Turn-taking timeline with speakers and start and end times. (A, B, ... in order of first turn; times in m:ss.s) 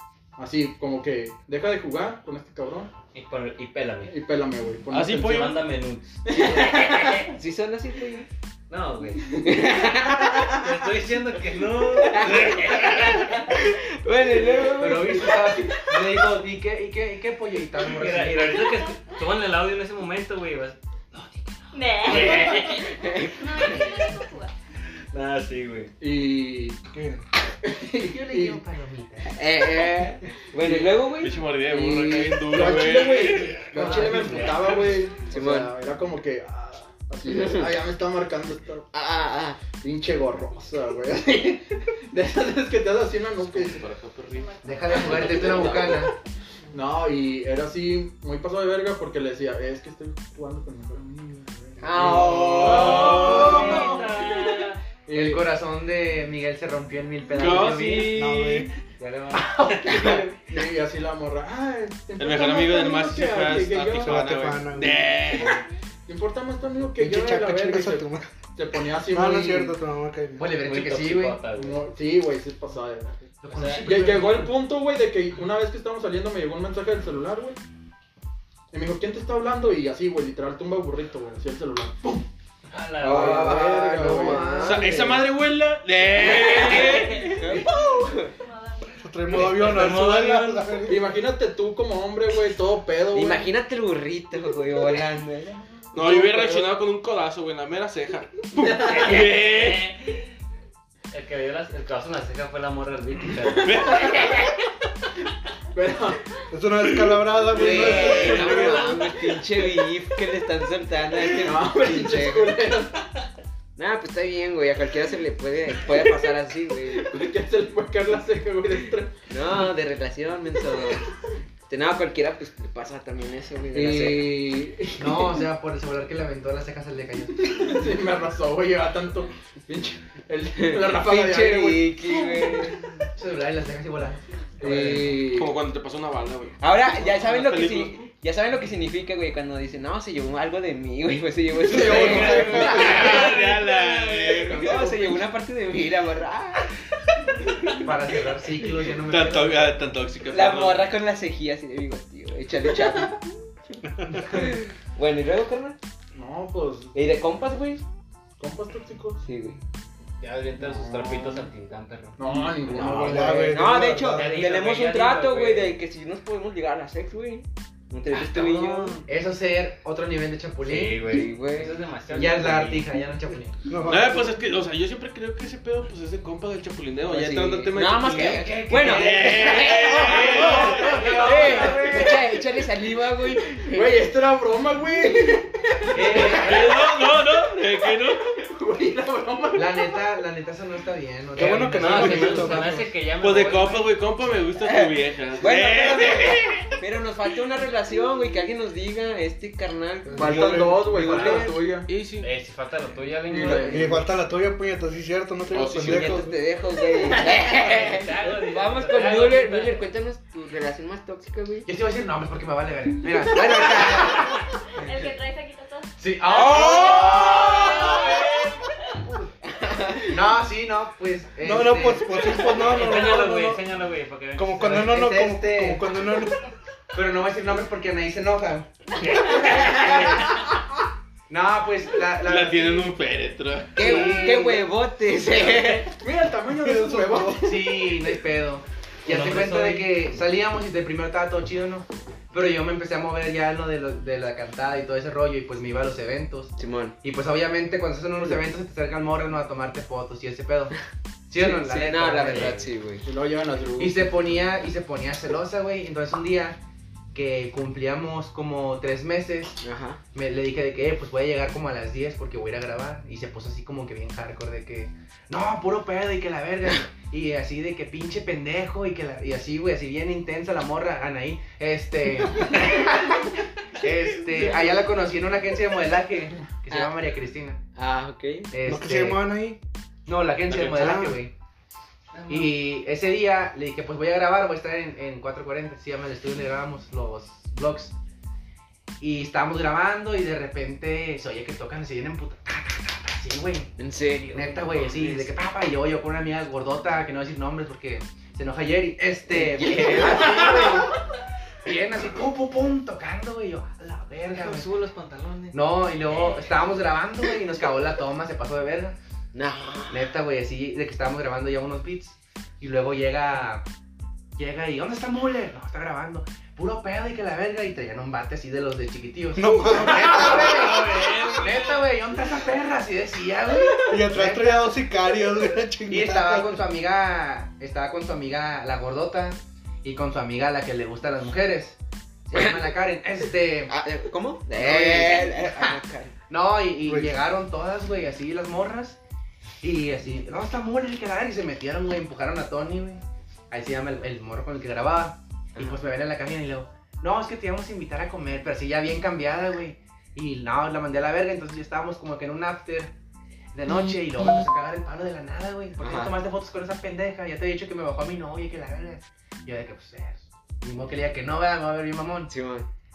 0:00.4-0:02.9 A
0:03.1-0:04.1 B
0:04.0-0:05.5 A
0:04.9-0:05.6 C
0:05.2-0:07.3 B
0:06.3-0:08.3 D
0:06.3-0:06.9 A
0:08.7-0:09.2 B
0:09.4-0:10.6 D
0:10.6-0:13.5 B
0:12.0-0:15.8 D
0:12.3-0:12.8 C
0:14.7-0:18.6 E
0:17.9-0:22.9 B
0:18.6-0:19.0 F
0:21.7-0:24.5 F
0:22.1-0:23.8 D
0:25.1-0:25.9 B
0:26.0-0:26.8 A
0:26.9-0:27.2 G
0:27.6-0:28.6 A
0:28.0-0:29.4 E
0:29.3-0:31.4 D
0:30.6-0:31.0 A
0:31.2-0:33.7 C
0:31.7-0:38.9 A
0:33.7-0:34.9 B
0:33.7-0:34.7 E
0:35.3-0:35.7 D
0:37.3-0:37.7 D
0:38.9-0:39.6 D
0:39.7-0:43.9 A
0:43.4-0:44.5 C
0:44.6-0:46.1 E
0:45.0-0:45.7 A
0:45.4-0:46.0 D
0:46.7-0:54.5 A
0:51.8-0:53.9 D
0:52.4-0:53.6 C
0:52.6-0:54.8 B
0:55.1-0:55.5 A
0:55.1-0:58.2 E
0:57.4-0:58.7 C
0:58.1-0:58.7 G
0:59.0-1:00.2 B
0:59.4-1:00.2 E
0:59.8-1:00.4 D
1:00.4-1:04.2 A
1:02.2-1:05.6 C
1:04.0-1:05.2 G
1:06.1-1:09.8 A
1:07.0-1:08.3 G
1:09.1-1:10.5 G
1:10.4-1:11.4 E
1:10.6-1:11.8 B
1:11.4-1:17.6 A
1:13.4-1:14.5 E
1:13.6-1:13.9 B
1:18.7-1:22.3 A
1:22.7-1:23.6 B
1:23.0-1:25.2 D
1:23.0-1:24.6 A
1:23.2-1:25.1 E
1:24.6-1:27.4 C
1:26.2-1:28.3 D
1:26.3-1:27.6 B
1:28.4-1:28.9 F
1:29.0-1:31.1 G
1:29.3-1:30.7 B
1:30.8-1:33.5 A
1:33.1-1:36.6 D
1:35.9-1:39.9 C
1:38.6-1:40.2 B
1:41.1-1:43.7 B
1:43.6-1:44.5 C
1:45.7-1:46.2 A
1:46.5-1:49.1 G
1:46.9-1:47.2 C
1:47.5-1:52.6 D
1:47.7-1:48.6 A
1:47.8-1:48.5 C
1:51.4-1:53.0 A
1:53.8-1:57.2 D
1:57.0-1:59.1 A
1:59.3-2:01.0 D
2:01.7-2:04.4 D
2:03.7-2:05.5 A
2:05.0-2:07.6 E
2:07.4-2:12.8 A
2:10.5-2:12.8 D
2:13.2-2:14.2 E
2:14.6-2:15.5 A
2:14.6-2:15.2 D
2:15.2-2:18.0 C
2:16.6-2:26.7 D
2:21.6-2:23.8 A
2:22.0-2:24.9 C
2:22.2-2:23.2 B
2:24.3-2:25.2 A
2:27.7-2:29.8 E
2:29.1-2:30.9 C
2:30.3-2:33.2 D
2:34.0-2:34.5 G
2:34.1-2:35.8 D
2:36.1-2:37.0 A
2:36.9-2:37.8 D
2:38.4-2:39.2 A
2:39.2-2:39.6 D
2:40.2-2:42.2 B
2:40.6-2:41.5 A
2:42.2-2:43.6 A
2:42.6-2:49.0 D
2:42.7-2:44.5 G
2:44.1-2:45.8 B
2:48.4-2:48.9 B
2:49.0-2:51.0 E
2:50.6-2:52.9 B
2:51.0-2:51.8 D
2:52.1-2:53.6 E
2:53.6-2:54.3 G
2:53.8-3:01.0 C
2:57.0-3:04.0 D
2:58.7-2:59.7 E
3:00.3-3:02.2 A
3:00.4-3:02.1 E
3:00.8-3:01.8 B
3:03.7-3:06.9 A
3:05.9-3:06.7 E
3:06.2-3:08.3 C
3:08.4-3:10.0 A
3:09.5-3:12.7 E
3:11.4-3:12.9 G
3:11.4-3:13.9 B
3:13.2-3:16.7 C
3:14.6-3:21.6 D
3:20.0-3:20.9 G
3:20.2-3:21.9 A
3:21.1-3:21.4 B
3:21.9-3:22.3 C
3:22.2-3:24.0 B
3:23.3-3:23.9 A
3:23.7-3:26.4 G
3:25.5-3:26.2 C
3:25.8-3:31.7 D
3:27.1-3:29.8 B
3:31.6-3:34.3 E
3:33.2-3:34.4 D
3:34.8-3:38.3 F
3:36.0-3:38.0 E
3:36.3-3:38.1 D
3:39.4-3:40.2 D
3:40.1-3:42.5 E
3:41.4-3:43.6 G
3:42.6-3:44.9 B
3:44.4-3:46.4 G
3:44.6-3:45.9 E
3:46.9-3:48.7 E
3:49.0-3:50.2 B
3:49.3-3:50.4 E
3:49.4-3:50.1 D
3:51.3-3:52.9 E
3:52.2-3:54.1 C
3:53.8-3:54.7 E
3:53.8-3:55.9 D
3:55.6-3:58.2 A
3:56.5-3:57.4 G
3:57.4-4:10.7 E
3:59.0-4:00.0 B
4:06.6-4:07.0 D
4:11.3-4:12.7 E
4:11.4-4:13.0 D
4:13.0-4:14.4 A
4:13.8-4:16.6 E
4:17.1-4:19.6 E
4:19.6-4:20.0 D
4:20.1-4:37.6 E
4:37.7-4:38.5 D
4:38.5-4:39.2 E
4:38.7-4:39.6 G
4:40.0-4:41.3 E
4:40.6-4:41.2 G
4:42.1-4:42.5 B
4:42.3-4:47.9 E
4:49.0-4:53.7 E
4:53.8-4:54.5 D
4:54.3-5:01.0 E
4:54.3-4:55.3 B
4:59.3-5:00.9 D
5:01.6-5:04.7 E
5:04.5-5:05.5 B
5:05.5-5:09.0 E
5:09.3-5:10.1 D
5:09.9-5:13.6 E
5:14.4-5:24.8 E
5:19.4-5:20.6 G
5:20.0-5:21.8 C
5:23.9-5:26.6 G
5:25.9-5:31.8 E
5:32.3-5:33.7 E
5:32.3-5:32.7 D
5:33.7-5:36.1 D
5:34.5-5:35.8 E
5:36.3-5:39.0 E
5:36.9-5:37.1 G
5:39.6-5:52.9 E
5:53.5-6:02.3 E
5:55.8-5:56.2 D
6:02.3-6:02.7 D